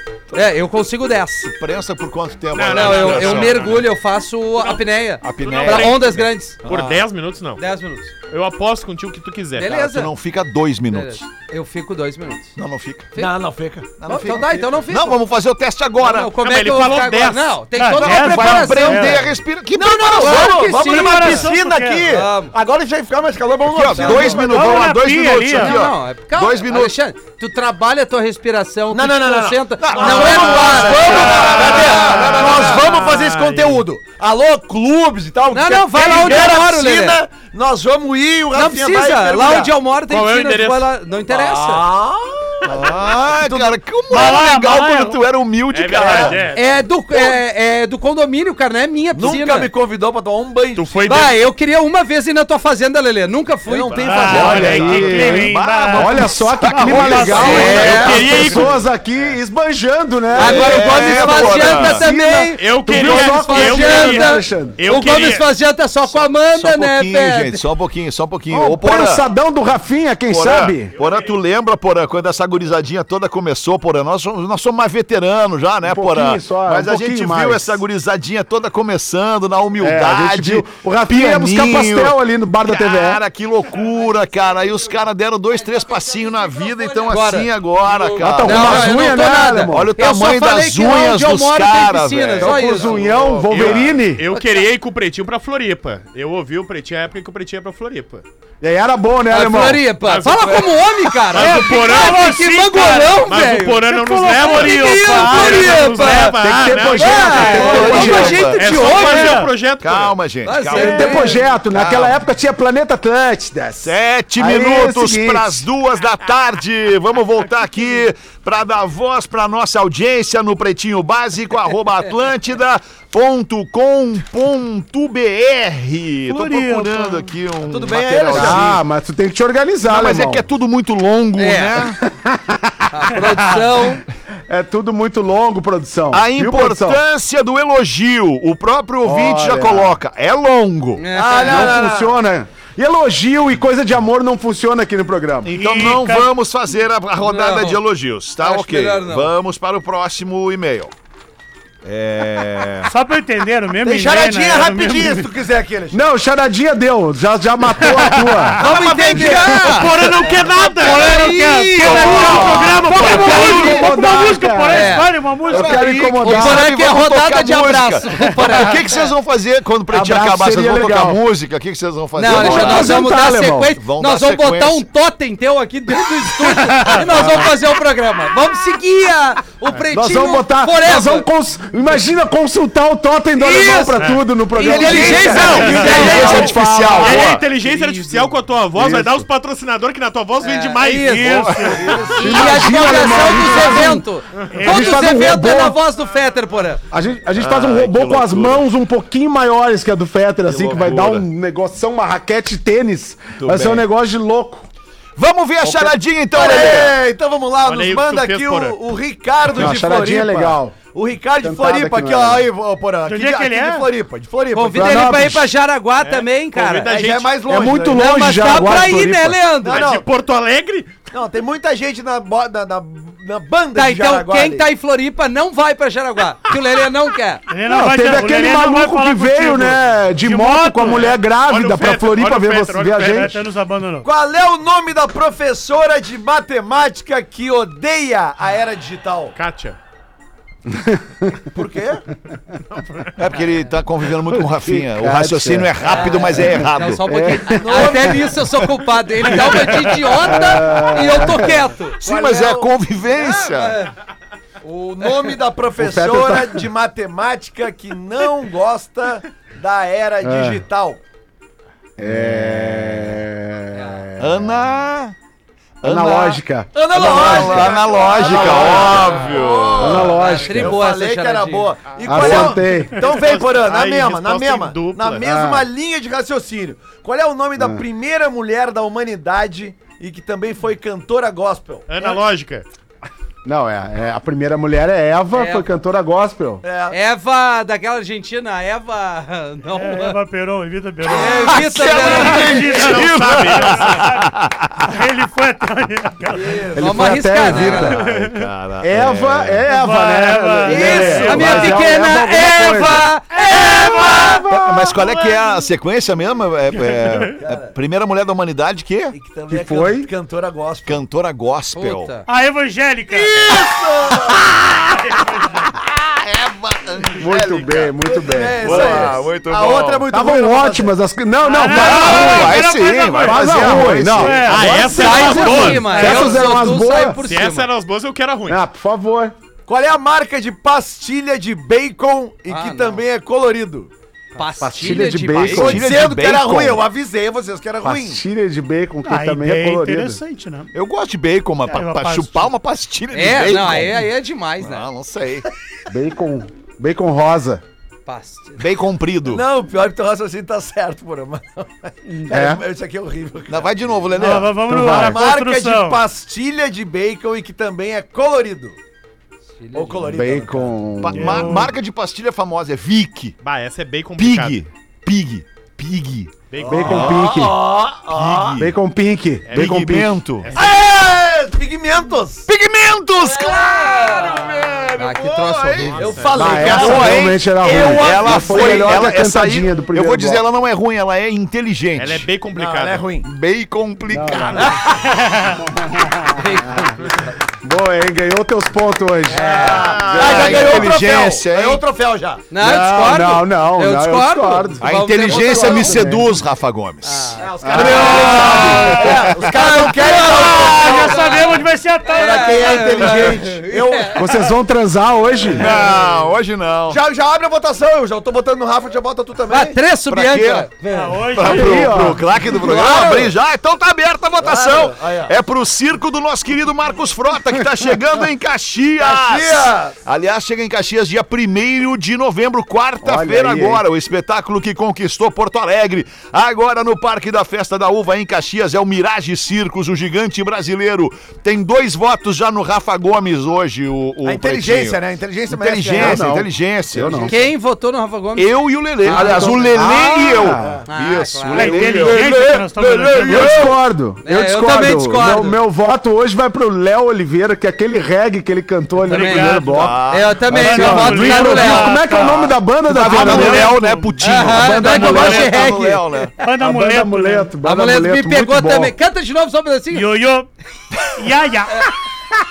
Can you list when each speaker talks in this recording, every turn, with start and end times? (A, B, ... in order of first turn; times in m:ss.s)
0:00.3-0:01.6 A
0:01.5-0:03.9 B
0:02.5-0:03.9 C
0:02.7-0:06.6 A
0:05.2-0:07.0 B
0:05.4-0:07.6 C
0:07.6-0:08.1 A
0:08.3-0:09.7 C
0:09.6-0:10.1 A
0:09.7-0:11.2 B
0:10.9-0:12.5 A
0:12.6-0:13.1 B
0:13.1-0:14.0 D
0:14.0-0:16.3 B
0:14.0-0:15.2 A
0:16.0-0:19.2 A
0:16.4-0:17.6 C
0:17.7-0:19.4 E
0:18.0-0:20.7 B
0:19.8-0:21.5 A
0:19.8-0:24.8 D
0:20.5-0:22.2 E
0:22.1-0:22.5 A
0:23.7-0:27.0 B
0:24.0-0:25.8 E
0:25.5-0:32.8 A
0:28.9-0:39.7 D
0:29.8-0:32.9 B
0:31.1-0:33.8 C
0:35.5-0:37.2 A
0:38.5-0:41.9 A
0:40.0-0:40.9 C
0:41.3-0:43.8 D
0:42.7-0:46.4 B
0:44.1-0:45.2 E
0:45.7-0:46.8 C
0:46.0-0:46.4 D
0:46.3-0:49.7 A
0:49.1-0:50.9 D
0:50.8-0:51.4 C
0:51.0-0:54.5 A
0:53.7-0:55.0 D
0:53.9-0:55.4 C
0:54.0-0:58.0 E
0:54.3-0:58.6 B
0:54.3-1:04.8 F
0:57.3-0:58.4 A
0:57.6-0:58.4 D
0:57.9-0:59.4 C
1:00.4-1:07.7 A
1:00.4-1:02.0 B
1:02.6-1:05.5 C
1:06.4-1:09.2 B
1:08.5-1:10.9 F
1:10.3-1:32.9 B
1:11.0-1:11.3 C
1:15.8-1:17.8 F
1:19.8-1:23.2 F
1:27.1-1:33.1 A
1:28.2-1:29.9 F
1:32.4-1:34.3 F
1:32.8-1:38.2 C
1:33.5-1:33.8 B
1:34.3-1:34.6 A
1:38.6-1:39.8 F
1:39.3-1:46.4 A
1:40.0-1:42.4 C
1:41.3-1:49.5 E
1:43.2-1:50.2 C
1:46.4-1:48.4 F
1:46.9-1:49.4 A
1:47.6-1:49.1 B
1:49.6-1:52.2 B
1:50.4-1:51.4 A
1:50.7-1:51.4 E
1:50.8-1:55.7 F
1:53.8-2:08.8 B
2:06.3-2:07.4 E
2:07.6-2:08.6 D
2:08.3-2:10.4 F
2:09.8-2:12.0 B
2:11.4-2:11.9 A
2:12.0-2:13.3 F
2:12.9-2:14.0 A
2:14.5-2:17.0 F
2:16.1-2:21.1 B
2:19.0-2:20.0 F
2:21.0-2:21.8 A
2:21.1-2:22.2 D
2:21.4-2:25.5 F
2:25.4-2:30.9 B
2:25.5-2:26.3 E
2:27.2-2:27.8 A
2:28.4-2:29.3 A
2:31.8-2:32.9 B
2:32.8-2:35.3 E
2:33.8-2:36.0 D
2:35.9-2:38.6 F
2:38.6-2:39.9 A
2:38.6-2:40.2 B
2:39.6-2:41.3 C
2:40.5-2:46.1 E
2:40.8-2:44.2 B
2:41.8-2:46.7 F
2:41.8-2:43.5 C
2:44.7-2:45.1 A
2:45.5-2:53.1 B
2:46.2-2:49.1 A
2:49.9-2:51.2 F
2:52.1-3:01.3 A
2:52.2-2:53.7 F
2:53.8-2:54.9 B
2:56.6-2:57.2 E
2:57.1-2:57.5 F
2:59.9-3:07.4 F
3:03.4-3:06.6 A
3:04.0-3:04.2 C
3:04.6-3:06.6 D
3:05.1-3:06.7 E
3:05.3-3:06.0 C
3:05.9-3:07.4 B
3:06.9-3:12.4 C
3:07.4-3:08.1 A
3:08.8-3:09.3 F
3:10.4-3:16.8 A
3:11.0-3:12.2 E
3:11.2-3:12.8 B
3:12.1-3:14.0 F
3:14.4-3:14.9 C
3:14.5-3:15.3 E
3:14.6-3:15.8 F
3:16.9-3:24.7 F
3:17.3-3:18.6 B
3:20.5-3:21.2 B
3:23.4-3:23.8 B
3:25.2-3:27.0 B
3:25.6-3:35.1 D
3:27.6-3:28.8 C
3:29.6-3:30.8 F
3:31.4-3:32.5 F
3:33.0-3:33.9 E
3:34.5-3:37.0 A
3:34.7-3:35.5 F
3:36.0-3:37.4 C
3:36.8-3:38.1 D
3:37.5-3:39.4 F
3:37.9-3:39.9 A
3:39.6-3:40.0 D
3:39.7-3:40.9 C
3:41.1-3:44.7 D
3:43.8-3:47.4 A
3:47.5-3:51.2 E
3:47.7-3:53.4 F
3:51.4-3:53.4 C
3:53.1-3:54.1 E
3:54.0-3:59.3 D
3:59.4-3:59.8 C
4:00.7-4:01.5 F
4:01.5-4:02.1 D
4:03.2-4:07.1 B
4:04.3-4:08.2 F
4:05.8-4:12.0 A
4:05.9-4:06.2 D
4:07.5-4:08.7 D
4:09.2-4:09.9 D
4:10.1-4:11.6 F
4:11.2-4:11.4 D
4:12.0-4:12.7 D
4:12.0-4:13.8 B
4:13.1-4:13.9 A
4:14.6-4:21.0 D
4:15.0-4:15.3 A
4:15.8-4:16.7 F
4:20.2-4:20.6 F
4:22.0-4:24.7 F
4:22.0-4:23.2 B
4:23.7-4:24.0 A
4:24.2-4:25.1 B
4:25.8-4:26.4 B
4:25.8-4:29.0 F
4:26.7-4:42.2 D
4:26.9-4:30.0 B
4:28.8-4:31.8 A
4:29.8-4:30.8 F
4:32.0-4:33.0 F
4:32.1-4:35.2 C
4:35.2-4:35.7 F
4:37.6-4:37.8 F
4:41.9-4:42.7 C
4:43.4-4:46.6 F
4:45.3-4:45.7 A
4:46.6-4:47.0 D
4:46.9-4:50.2 A
4:49.7-4:56.7 E
4:51.1-4:52.6 A
4:51.1-4:51.9 D
4:51.5-4:55.0 B
4:52.2-4:54.1 C
4:56.3-4:57.8 D
4:56.8-4:58.1 F
4:56.8-4:58.0 A
4:57.6-4:59.7 B
4:58.1-4:58.5 E
4:58.8-5:03.1 F
4:59.6-5:02.0 E
5:00.7-5:04.4 A
5:01.1-5:01.9 C
5:03.0-5:04.5 E
5:03.6-5:04.4 D
5:04.0-5:05.0 F
5:04.5-5:09.1 B
5:05.0-5:05.6 E
5:06.7-5:07.4 E
5:07.4-5:07.8 D
5:09.1-5:11.0 D
5:09.5-5:10.1 F
5:10.9-5:12.2 B
5:11.8-5:12.2 A
5:12.3-5:13.6 E
5:13.1-5:14.6 D
5:14.3-5:20.1 B
5:14.9-5:15.7 E
5:17.2-5:19.2 F
5:18.1-5:21.0 D
5:20.1-5:22.6 F
5:21.4-5:26.6 E
5:21.6-5:24.2 B
5:23.2-5:27.2 F
5:23.5-5:25.6 D
5:24.5-5:26.1 C
5:24.7-5:27.7 A
5:27.2-5:28.6 C
5:28.5-5:29.4 F
5:29.7-5:33.9 D
5:32.5-5:33.0 A
5:34.4-5:35.8 A
5:34.6-5:35.9 F
5:35.5-5:38.2 D
5:35.5-5:36.8 B
5:37.8-5:40.2 F
5:39.0-5:40.7 E
5:40.7-5:44.1 B
5:41.6-5:42.5 E
5:43.1-5:44.9 A
5:44.6-5:45.5 B
5:45.9-5:47.6 F
5:48.1-5:48.7 A
5:48.6-5:49.4 B
5:49.3-5:54.0 D
5:52.1-5:52.4 E
5:52.3-5:52.6 F
5:53.5-5:54.6 B
5:54.1-5:56.0 E
5:54.7-5:55.2 F
5:55.0-5:58.8 D
5:59.6-6:00.2 A
5:59.7-6:00.8 D
6:00.1-6:01.6 F
6:01.0-6:03.4 B
6:01.1-6:01.8 E
6:03.4-6:04.6 C
6:04.2-6:07.3 B
6:06.5-6:07.2 C
6:06.6-6:08.7 D
6:06.7-6:07.6 F
6:08.1-6:08.7 B
6:08.6-6:10.2 F
6:09.5-6:10.8 C
6:09.5-6:10.5 B
6:10.5-6:12.5 D
6:12.5-6:22.3 B
6:13.2-6:16.2 A
6:15.9-6:16.9 C
6:16.0-6:19.0 D
6:16.4-6:20.4 F
6:22.0-6:23.1 C
6:22.5-6:23.3 D
6:23.2-6:25.0 B
6:24.1-6:24.7 F
6:24.8-6:25.6 E
6:25.8-6:26.9 F
6:26.2-6:27.3 A
6:27.5-6:30.9 F
6:29.3-6:32.4 D
6:29.3-6:30.0 A
6:29.7-6:31.8 B
6:32.5-6:36.1 A
6:32.6-6:36.4 F
6:34.8-6:41.1 B
6:37.0-6:44.3 A
6:37.4-6:41.4 D
6:37.6-6:38.6 F
6:40.7-6:43.4 E
6:42.1-6:44.4 D
6:43.1-6:43.4 B
6:44.1-6:45.8 F
6:45.5-6:46.0 D
6:45.5-6:47.0 B
6:46.9-6:49.8 D
6:49.5-6:51.1 A
6:50.1-6:50.8 B
6:50.9-6:51.9 E
6:51.3-7:17.5 B
6:51.4-6:52.3 F
6:52.5-6:53.4 D
6:54.4-6:55.3 D
6:59.0-7:00.0 D
7:03.0-7:03.8 F
7:14.2-7:16.3 D
7:16.0-7:17.4 F
7:17.3-7:19.7 A
7:18.4-7:23.8 B
7:19.0-7:20.8 F
7:20.9-7:22.2 A
7:21.5-7:23.7 E
7:23.3-7:33.8 F
7:24.2-7:25.6 A
7:29.1-7:29.9 E
7:29.1-7:32.1 A
7:29.6-7:30.5 B
7:30.5-7:35.6 E
7:32.8-7:36.3 B
7:34.2-7:36.3 A
7:34.5-7:35.6 F
7:36.4-7:37.5 E
7:36.6-7:38.9 F
7:37.6-7:40.1 A
7:39.9-7:40.5 E
7:41.2-7:41.9 E